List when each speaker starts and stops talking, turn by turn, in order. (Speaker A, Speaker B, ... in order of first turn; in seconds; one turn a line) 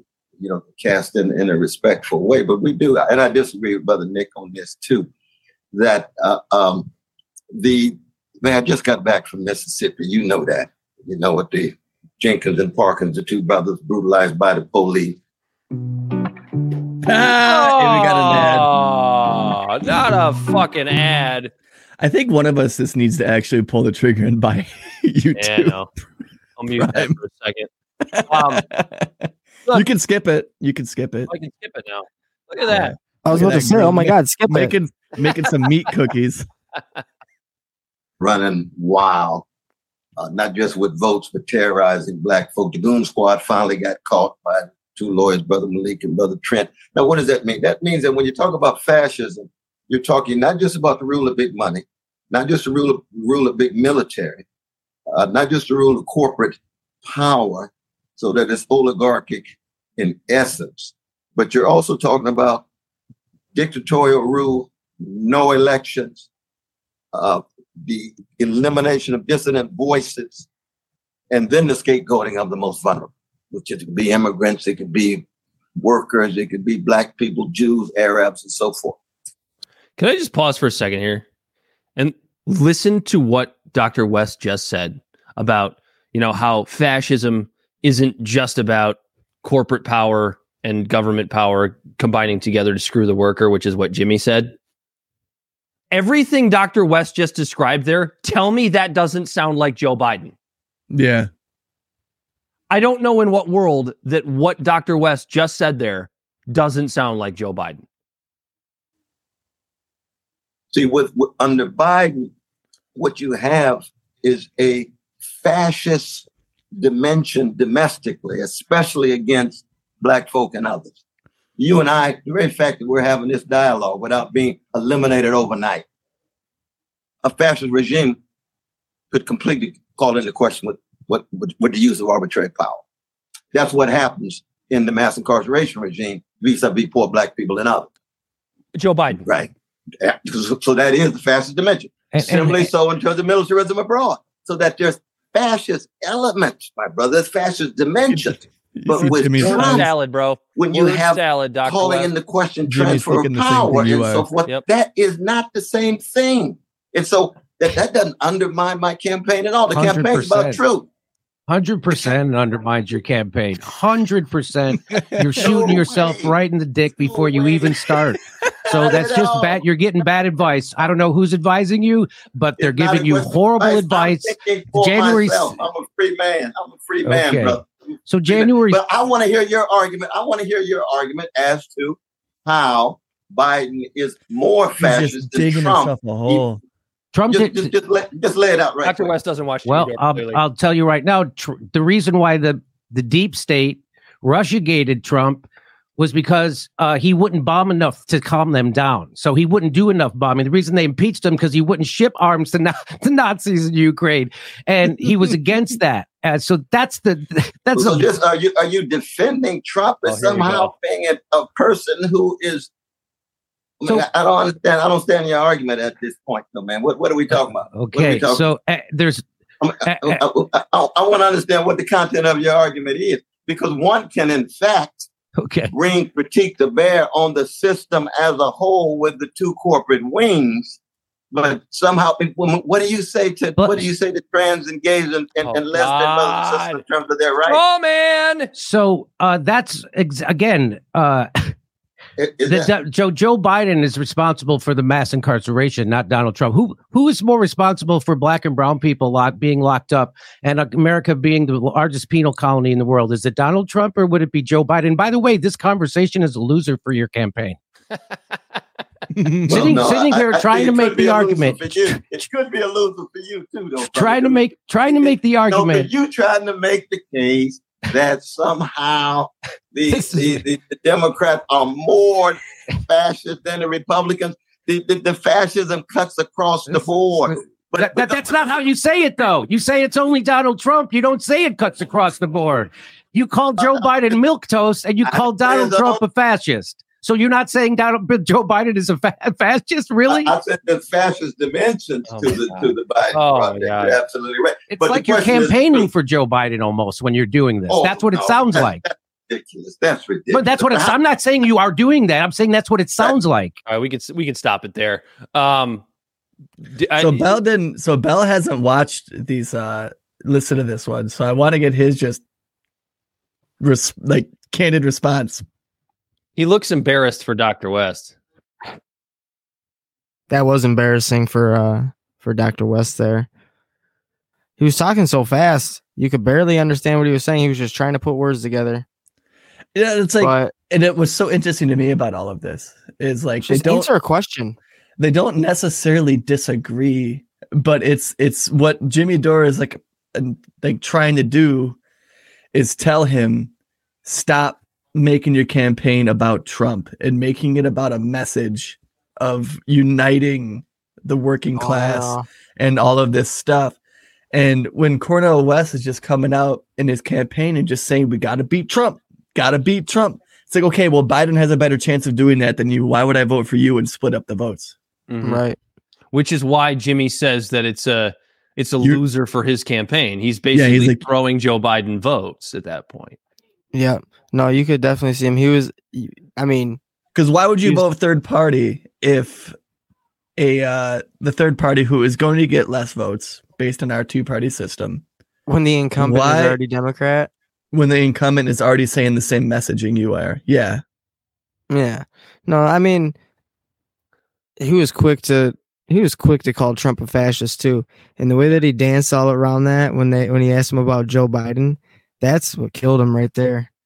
Speaker A: 0.4-5.1
Speaker A: 5.7-6.9
Speaker A: 7.5-15.2
Speaker B: 17.0-18.7
Speaker C: 17.4-21.5
Speaker B: 22.0-25.8
Speaker C: 25.4-25.9
Speaker C: 26.6-27.7
Speaker B: 26.8-27.1
Speaker B: 28.0-31.3
Speaker C: 28.3-28.6
Speaker C: 31.3-32.9
Speaker B: 32.7-36.5
Speaker D: 33.2-34.7
Speaker A: 38.2-39.4
Speaker A: 40.2-54.4
Speaker A: 55.1-62.6
Speaker A: 63.5-66.2
Speaker A: 67.1-70.5
Speaker A: 71.3-75.2
Speaker A: 75.8-79.0
Speaker C: 80.0-81.2
Speaker C: 82.0-94.5
Speaker C: 95.9-100.3
Speaker B: 100.9-101.3
Speaker C: 102.7-107.8
Speaker A: 110.7-112.3
Speaker A: 112.9-121.0
Speaker A: 121.6-125.8
Speaker A: 127.2-128.2
Speaker A: 129.1-132.8
Speaker A: 133.5-137.9
Speaker C: 138.7-139.2
Speaker A: 139.2-139.5
Speaker A: 140.0-149.9
Speaker E: 142.1-142.7
Speaker B: 148.1-149.8
Speaker C: 149.3-152.1
Speaker A: 150.5-160.9
Speaker B: 152.7-154.3
Speaker E: 159.7-160.6
Speaker E: 161.5-168.2
Speaker A: 165.3-166.4
Speaker A: 166.9-167.9
Speaker A: 168.6-169.6
Speaker E: 168.7-175.7
Speaker A: 172.6-177.7
Speaker E: 177.0-178.8
Speaker A: 178.3-186.4
Speaker B: 184.8-186.6
Speaker E: 187.1-187.7
Speaker A: 187.3-189.1
Speaker C: 188.8-190.4
Speaker E: 189.7-195.4
Speaker E: 196.0-208.1
Speaker A: 207.7-212.7
Speaker C: 210.1-210.7
Speaker A: 213.8-218.4
Speaker E: 217.3-219.2
Speaker A: 219.6-225.1
Speaker E: 219.8-220.2
Speaker E: 225.4-225.7
Speaker A: 225.7-230.8
Speaker A: 231.3-237.6
Speaker E: 233.6-233.9
Speaker C: 235.4-236.8
Speaker C: 237.4-238.5
Speaker E: 238.5-241.5
Speaker A: 242.2-242.7
Speaker E: 242.4-257.6
Speaker B: 259.1-259.7
Speaker E: 259.5-262.0
Speaker A: 259.5-278.4
Speaker E: 263.8-265.9
Speaker E: 269.9-270.4
Speaker E: 276.7-290.3
Speaker A: 283.6-284.1
Speaker A: 285.1-286.0
Speaker A: 290.1-295.9
Speaker C: 292.1-294.0
Speaker E: 294.7-298.8
Speaker A: 297.7-301.0
Speaker E: 300.3-303.6
Speaker C: 303.6-305.8
Speaker C: 306.6-307.3
Speaker B: 307.0-312.2
Speaker B: 313.6-315.4
Speaker C: 316.4-318.1
Speaker D: 320.3-323.3
Speaker D: 324.6-328.8
Speaker B: 329.7-333.9
Speaker D: 330.2-330.5
Speaker D: 333.4-334.6
Speaker B: 335.0-341.8
Speaker B: 342.5-343.5
Speaker B: 344.0-353.8
Speaker D: 351.6-352.2
Speaker B: 354.3-364.7
Speaker C: 365.1-365.4
Speaker D: 365.2-365.6
Speaker C: 366.1-373.2
Speaker B: 370.5-371.0
Speaker D: 373.7-376.8
Speaker B: 377.1-379.6
Speaker B: 380.4-385.0
Speaker D: 385.5-387.3
Speaker B: 386.0-386.6
Speaker B: 387.7-390.8
Speaker D: 391.7-393.1
Speaker D: 394.6-403.7